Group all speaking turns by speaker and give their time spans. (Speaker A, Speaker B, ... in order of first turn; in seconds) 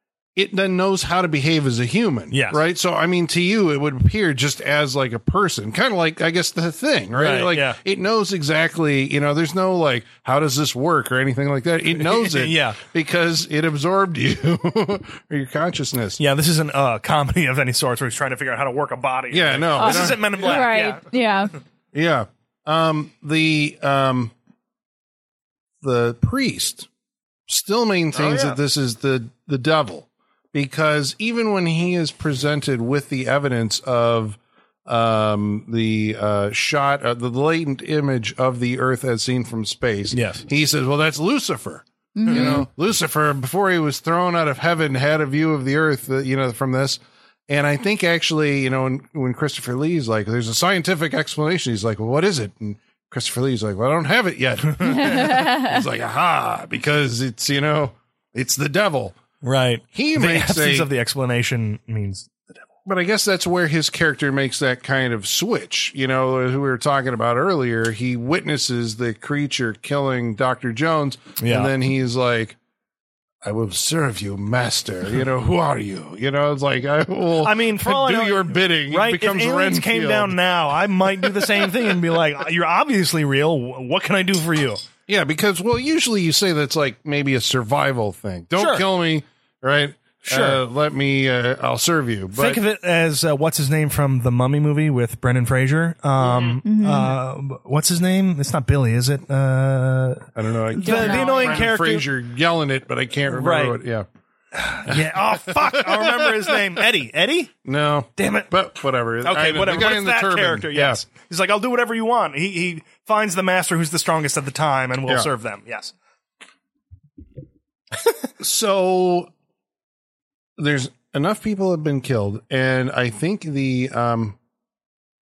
Speaker A: 0.4-16.2, 19.3-20.6, 21.9-24.3, 25.8-26.9, 27.5-59.2, 59.9-60.9, 62.9-72.6, 73.4-80.3, 81.2-81.7, 85.1-92.6, 100.3-104.1, 104.9-106.6, 107.7-111.0, 118.4-119.3, 120.6-124.4
Speaker B: 2.3-2.6, 7.2-7.8, 12.0-12.8, 16.2-21.0, 28.1-28.6, 40.1-40.4, 42.3-42.6, 54.8-55.2, 59.4-62.7, 71.4-71.7, 77.4-84.8, 88.6-88.8, 90.2-90.6, 92.3-102.1, 103.3-103.8, 104.5-107.5, 108.2-108.5, 109.2-115.9
Speaker C: 19.8-21.5, 42.1-42.6, 54.8-55.8, 96.6-97.1, 100.8-101.6